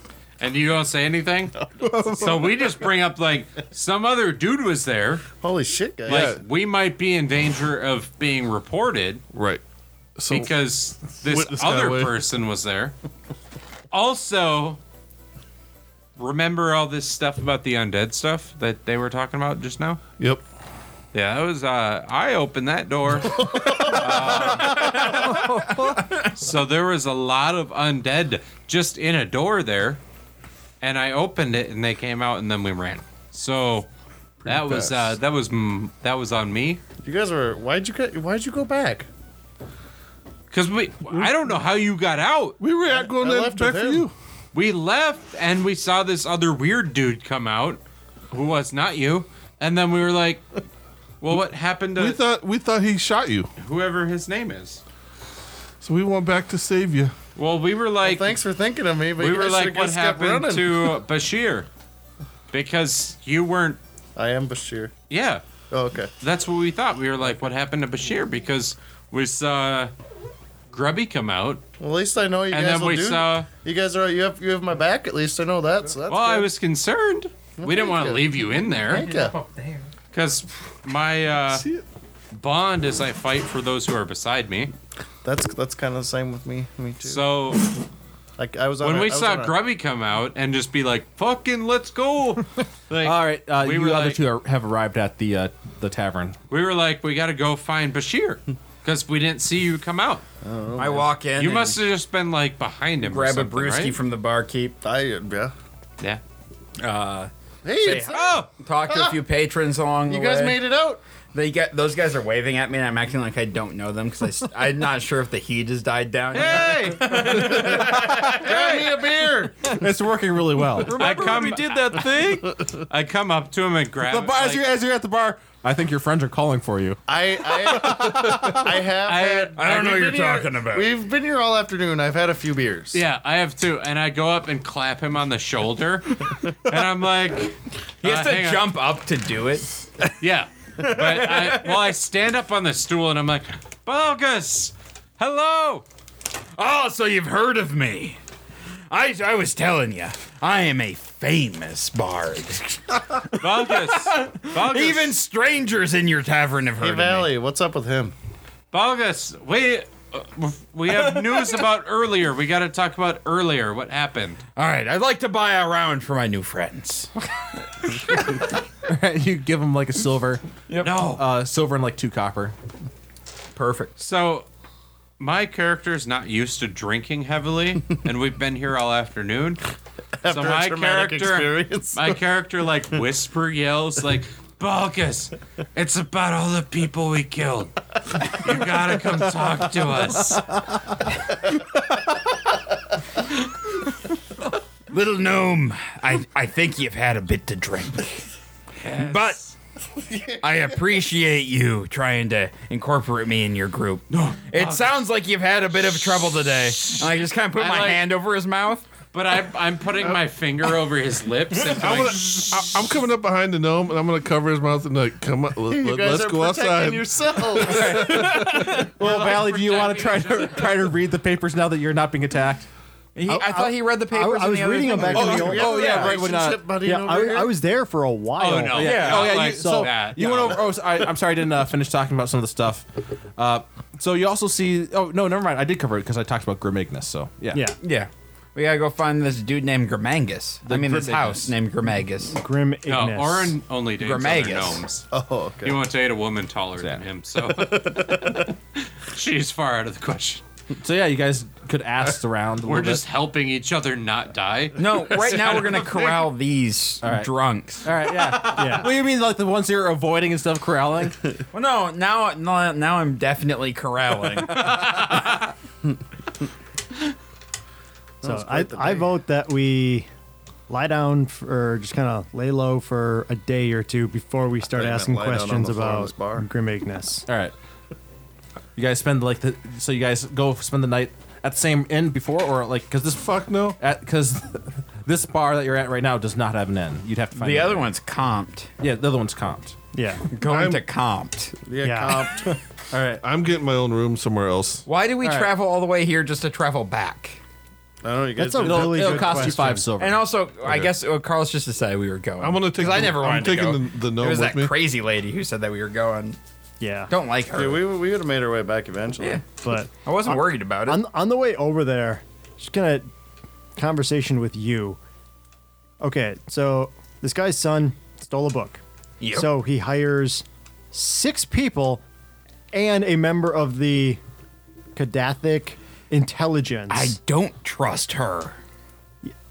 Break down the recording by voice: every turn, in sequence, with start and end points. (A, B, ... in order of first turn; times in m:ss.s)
0:00.4-0:01.5 A
0:01.6-0:02.5 B
0:02.0-0:05.2 A
0:05.4-0:06.3 B
0:06.1-0:06.4 C
0:06.1-0:09.2 A
0:09.3-0:09.6 C
0:10.2-0:10.5 C
0:10.3-0:12.9 A
0:11.2-0:12.1 C
0:13.9-0:14.8 A
0:16.2-0:20.0 A
0:21.1-0:25.4 A
0:23.2-0:24.5 B
0:24.8-0:25.2 D
0:26.3-0:30.0 A
0:30.8-0:33.9 A
0:34.4-0:36.8 A
0:34.5-0:35.0 C
0:37.0-0:39.1 B
0:40.5-0:42.6 A
0:42.6-0:44.1 C
0:42.9-0:44.1 B
0:44.5-0:50.4 A
0:51.2-0:52.2 A
0:52.0-0:53.5 C
0:53.6-0:54.8 A
0:55.8-0:57.1 C
0:57.4-0:58.4 A
0:58.0-1:01.0 B
0:59.2-1:01.7 A
1:02.5-1:03.8 A
1:04.2-1:04.9 B
1:05.1-1:05.4 A
1:05.7-1:06.1 B
1:06.2-1:09.9 A
1:10.7-1:11.6 A
1:11.8-1:16.5 B
1:12.5-1:13.5 A
1:16.1-1:19.1 A
1:17.6-1:19.4 B
1:19.0-1:19.7 E
1:20.1-1:21.6 A
1:22.3-1:24.7 A
1:25.2-1:27.2 B
1:27.0-1:27.7 A
1:28.4-1:29.5 B
1:28.8-1:34.2 A
1:33.0-1:36.4 F
1:36.5-1:40.2 A
1:40.4-1:41.1 B
1:40.8-1:41.8 D
1:41.4-1:44.0 A
1:43.0-1:44.8 D
1:44.8-1:45.5 B
1:46.8-1:50.6 D
1:47.6-1:49.2 B
1:47.9-1:48.5 A
1:50.1-1:51.0 B
1:51.3-1:57.6 D
1:56.3-1:58.9 A
1:57.3-1:59.6 B
1:57.5-1:58.3 F
1:59.7-2:01.2 F
2:00.7-2:02.6 E
2:00.9-2:04.6 A
2:04.0-2:08.7 F
2:07.1-2:13.0 B
2:09.0-2:10.3 A
2:09.6-2:10.9 D
2:12.9-2:18.8 A
2:18.0-2:19.7 D
2:20.2-2:25.8 A
2:20.8-2:21.8 D
2:26.6-2:28.2 D
2:28.9-2:37.3 D
2:33.3-2:35.2 A
2:36.8-2:38.1 B
2:38.7-2:44.4 A
2:40.9-2:41.6 D
2:44.6-2:47.1 D
2:48.1-2:48.4 D
2:48.8-2:50.4 F
2:50.7-2:51.1 D
2:50.8-2:51.2 A
2:51.1-2:52.5 F
2:53.6-2:53.9 D
2:54.0-2:54.5 A
2:55.2-2:59.6 A
3:00.2-3:02.2 B
3:00.2-3:10.6 A
3:14.9-3:18.2 D
3:18.8-3:19.4 A
3:18.8-3:19.5 D
3:20.4-3:28.8 D
3:24.1-3:25.0 A
3:26.8-3:28.1 A
3:29.1-3:32.8 A
3:31.6-3:38.8 C
3:35.6-3:38.6 B
3:37.6-3:42.7 F
3:38.7-3:40.9 A
3:43.1-3:45.6 D
3:43.2-3:46.2 G
3:45.1-3:47.6 B
3:45.1-3:46.6 F
3:46.8-3:49.9 G
3:48.4-3:50.6 A
3:48.7-3:52.8 F
3:53.4-3:57.6 F
3:57.8-4:02.4 D
4:00.6-4:01.5 F
4:02.3-4:03.6 G
4:02.9-4:05.1 A
4:04.0-4:04.8 D
4:05.1-4:05.8 B
4:05.6-4:08.5 A
4:07.4-4:08.5 B
4:09.0-4:10.4 A
4:10.8-4:13.0 F
4:12.6-4:16.2 A
4:14.8-4:17.9 D
4:17.0-4:17.3 F
4:17.8-4:21.2 F
4:18.5-4:18.9 G
4:21.5-4:25.1 D
4:24.6-4:25.2 A
4:28.2-4:29.1 B
4:28.2-4:30.1 G
4:30.7-4:37.2 G
4:34.7-4:36.4 B
4:37.3-4:37.5 F
4:38.8-4:47.9 F
4:43.2-4:43.8 C
4:47.3-4:48.7 D
4:48.8-4:49.8 F
4:49.9-4:50.3 G
4:50.3-4:51.6 D
4:50.4-4:50.8 C
4:51.6-4:52.5 B
4:51.8-4:52.2 G
4:52.9-4:53.2 F
4:53.2-4:54.8 C
4:54.8-4:57.4 D
4:55.2-4:55.5 F
4:58.0-4:59.5 B
4:58.4-4:59.9 G
4:58.6-5:00.2 F
5:00.0-5:06.4 D
5:00.6-5:00.9 C
5:02.4-5:04.7 C
5:06.8-5:07.1 G
5:07.1-5:07.8 D
5:07.5-5:09.4 B
5:09.6-5:13.1 G
5:10.0-5:11.0 D
5:13.8-5:15.0 G
5:16.0-5:22.0 G
5:19.2-5:19.5 D
5:22.7-5:24.2 G
5:24.9-5:27.2 G
5:26.9-5:28.6 D